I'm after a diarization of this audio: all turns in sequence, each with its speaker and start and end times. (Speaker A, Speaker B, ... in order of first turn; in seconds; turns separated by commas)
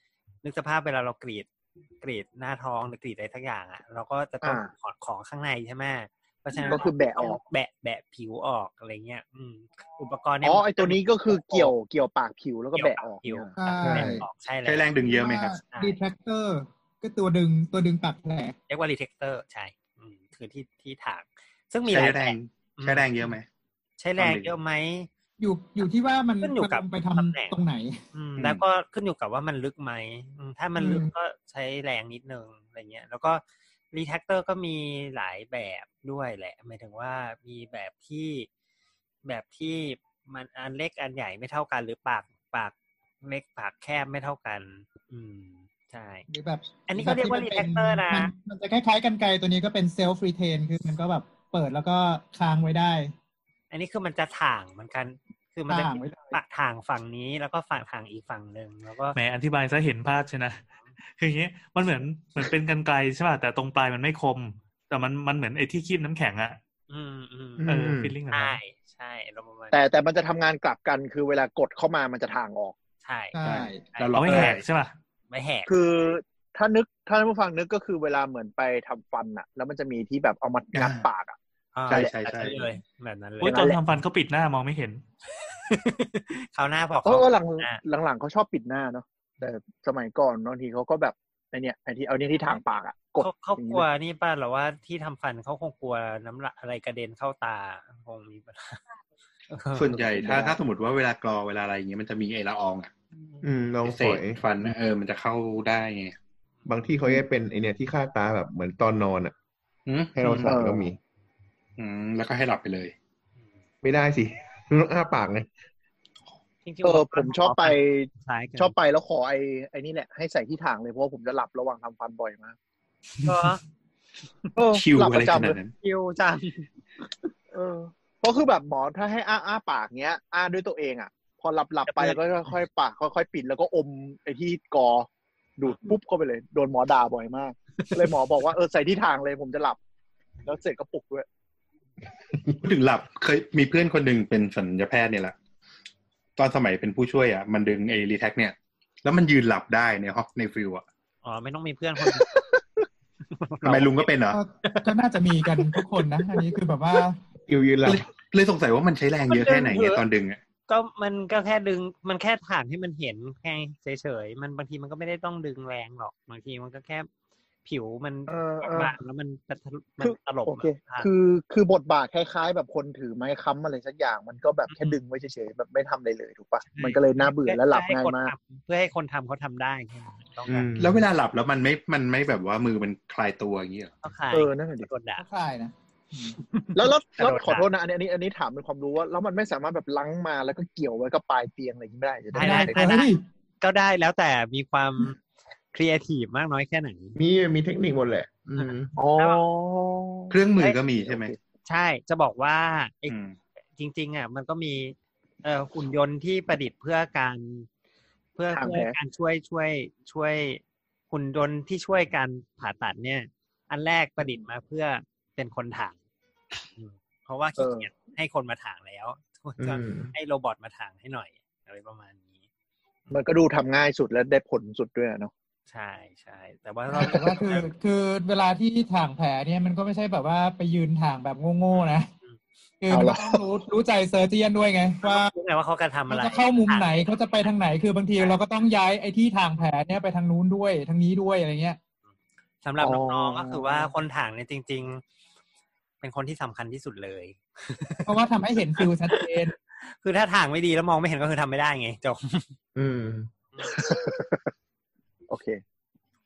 Speaker A: 0.4-1.5, Speaker A: 2.0-11.7, Speaker B: 4.4-4.7, Speaker B: 6.7-7.4, Speaker B: 10.4-13.5, Speaker A: 12.7-14.9, Speaker C: 13.6-14.2, Speaker D: 13.8-14.2, Speaker E: 14.6-15.6, Speaker C: 15.0-18.5, Speaker A: 15.7-16.0, Speaker A: 18.7-23.3, Speaker E: 21.9-23.4, Speaker A: 24.0-25.1, Speaker E: 24.2-24.5, Speaker C: 25.4-28.0, Speaker A: 26.4-27.6, Speaker A: 28.1-38.5, Speaker C: 30.8-31.1, Speaker A: 39.2-46.3, Speaker C: 46.3-53.1, Speaker A: 46.9-48.3, Speaker A: 53.7-59.2, Speaker C: 55.7-56.4, Speaker F: 59.1-66.6, Speaker A: 66.9-67.7, Speaker D: 67.6-68.2, Speaker F: 67.6-68.6, Speaker A: 68.3-69.8, Speaker B: 69.7-72.8, Speaker A: 73.0-73.4, Speaker C: 73.3-73.8, Speaker E: 73.4-74.6, Speaker A: 73.9-74.6, Speaker F: 74.1-74.9, Speaker A: 75.3-75.7, Speaker B: 75.7-81.3, Speaker E: 80.7-81.1, Speaker A: 81.7-83.7, Speaker E: 81.9-82.7, Speaker B: 81.9-82.2, Speaker F: 83.4-85.0, Speaker B: 83.4-83.8, Speaker A: 85.4-87.8, Speaker B: 87.0-93.8, Speaker A: 93.2-98.8, Speaker A: 99.5-100.5, Speaker E: 99.7-102.9, Speaker D: 103.4-104.8, Speaker E: 103.8-106.2, Speaker D: 106.7-109.3, Speaker E: 109.8-110.5, Speaker D: 110.1-111.0, Speaker B: 110.5-110.9, Speaker E: 111.8-112.9, Speaker D: 113.8-115.5, Speaker A: 116.6-118.7, Speaker B: 116.8-122.5, Speaker A: 123.2-123.6, Speaker B: 124.5-125.6, Speaker E: 124.7-125.7, Speaker A: 125.8-126.7, Speaker B: 127.5-139.8, Speaker A: 131.8-132.2, Speaker B: 140.4-141.3, Speaker D: 142.3-142.6, Speaker E: 142.6-145.3, Speaker E: 146.3-150.8, Speaker A: 151.2-152.3, Speaker B: 152.2-152.4, Speaker A: 153.2-154.1, Speaker E: 153.6-154.4, Speaker C: 154.3-157.2, Speaker D: 157.4-158.1, Speaker E: 157.8-160.4, Speaker A: 159.3-160.0, Speaker A: 160.7-167.1, Speaker A: 167.6-171.1, Speaker B: 168.3-168.9, Speaker B: 170.0-178.3, Speaker A: 174.7-175.0, Speaker A: 176.7-180.7, Speaker D: 180.5-181.1, Speaker E: 180.8-183.9, Speaker A: 184.0-185.2, Speaker B: 184.3-184.9, Speaker C: 185.2-186.4, Speaker A: 186.5-187.7, Speaker B: 186.7-192.8, Speaker A: 192.3-195.2, Speaker C: 192.3-193.2, Speaker A: 195.7-197.2, Speaker D: 197.2-198.9, Speaker A: 198.6-199.4, Speaker B: 198.9-200.4, Speaker E: 200.3-201.3, Speaker B: 200.9-201.4, Speaker A: 201.7-203.2, Speaker E: 203.1-203.4, Speaker A: 203.8-207.7, Speaker A: 208.3-215.9, Speaker B: 208.5-208.9, Speaker A: 216.8-222.4, Speaker B: 217.6-217.9, Speaker D: 219.6-220.1, Speaker B: 223.1-225.3, Speaker A: 225.7-227.7, Speaker C: 226.9-232.1, Speaker A: 231.7-232.4, Speaker C: 232.8-235.3, Speaker B: 232.9-233.4, Speaker A: 235.0-237.1, Speaker C: 236.1-241.8, Speaker A: 242.6-245.0, Speaker B: 242.8-243.9, Speaker A: 246.0-248.1, Speaker C: 248.1-249.5, Speaker A: 248.8-252.5, Speaker D: 252.7-253.3, Speaker B: 253.6-254.5, Speaker B: 255.3-255.6